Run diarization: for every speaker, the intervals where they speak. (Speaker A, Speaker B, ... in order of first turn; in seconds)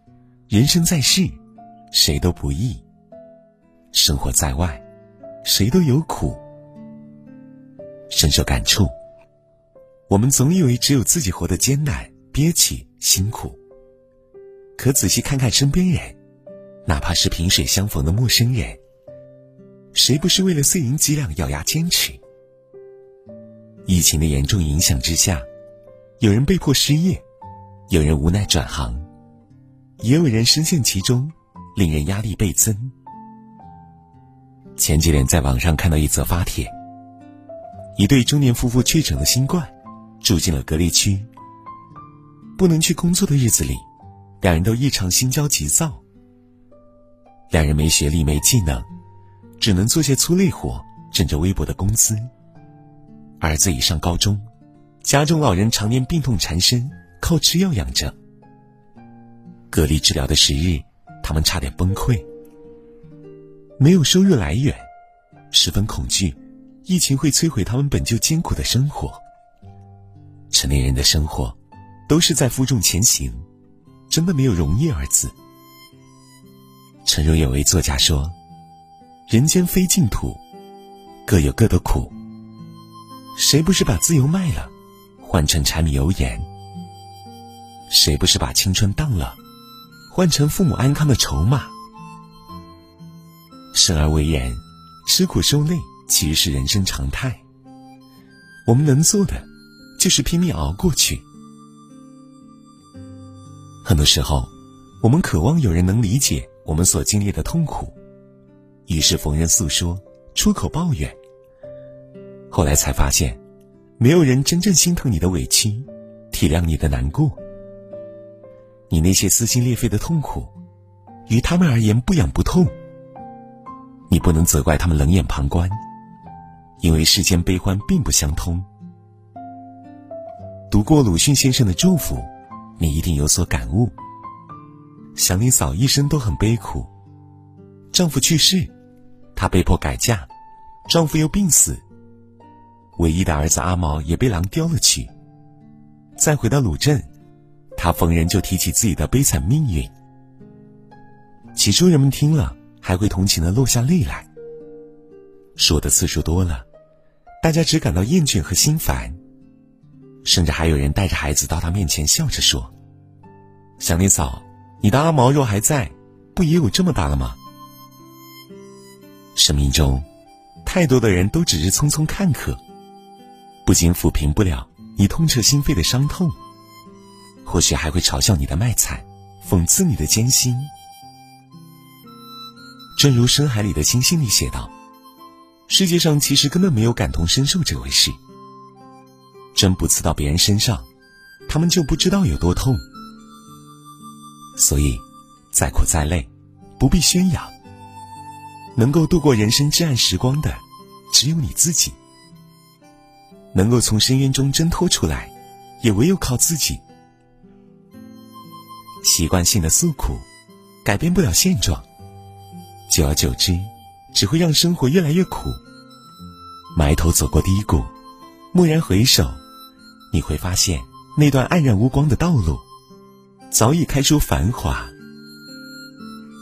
Speaker A: 0.5-1.4, 1.9-2.8, 3.9-4.8, 5.4-6.4, 8.1-8.9, 10.1-13.6, 14.8-16.2, 16.9-18.8, 19.9-22.2, 23.9-25.4, 26.2-27.2, 27.9-29.0, 30.0-32.9, 34.8-36.7, 38.0-41.3, 42.5-43.8, 44.4-46.0, 47.5-48.9, 49.6-52.3, 53.4-54.5, 55.0-58.1, 59.7-62.2, 63.8-64.8, 65.5-69.2, 70.5-71.5, 72.1-73.4, 74.1-75.3, 77.0-78.3, 79.3-80.4, 81.2-82.1, 83.3-86.5, 87.9-89.4, 90.1-91.7, 93.7-97.4, 98.7-101.2, 103.8-104.5, 105.0-107.9, 108.9-111.2, 112.5-113.4, 114.0-117.4, 118.9-120.5, 121.3-122.7, 124.1-125.8, 126.8-128.7, 130.7-133.9, 135.1-136.9, 137.9-138.7, 139.3-140.3, 140.9-141.8, 142.9-145.1, 146.2-147.1, 147.8-149.9, 151.5-154.3, 155.6-156.7, 157.4-159.2, 160.2-162.7, 163.8-167.4, 169.3-170.1, 170.6-172.6, 173.6-176.3, 177.4-180.7, 182.9-184.7, 185.7-188.2, 189.5-190.9, 191.5-192.8, 194.6-197.5, 198.8-202.0, 203.5-206.8, 209.0-210.2, 210.8-211.8, 212.9-215.6, 216.7-217.9, 218.5-219.4, 220.1-222.6, 223.5-224.9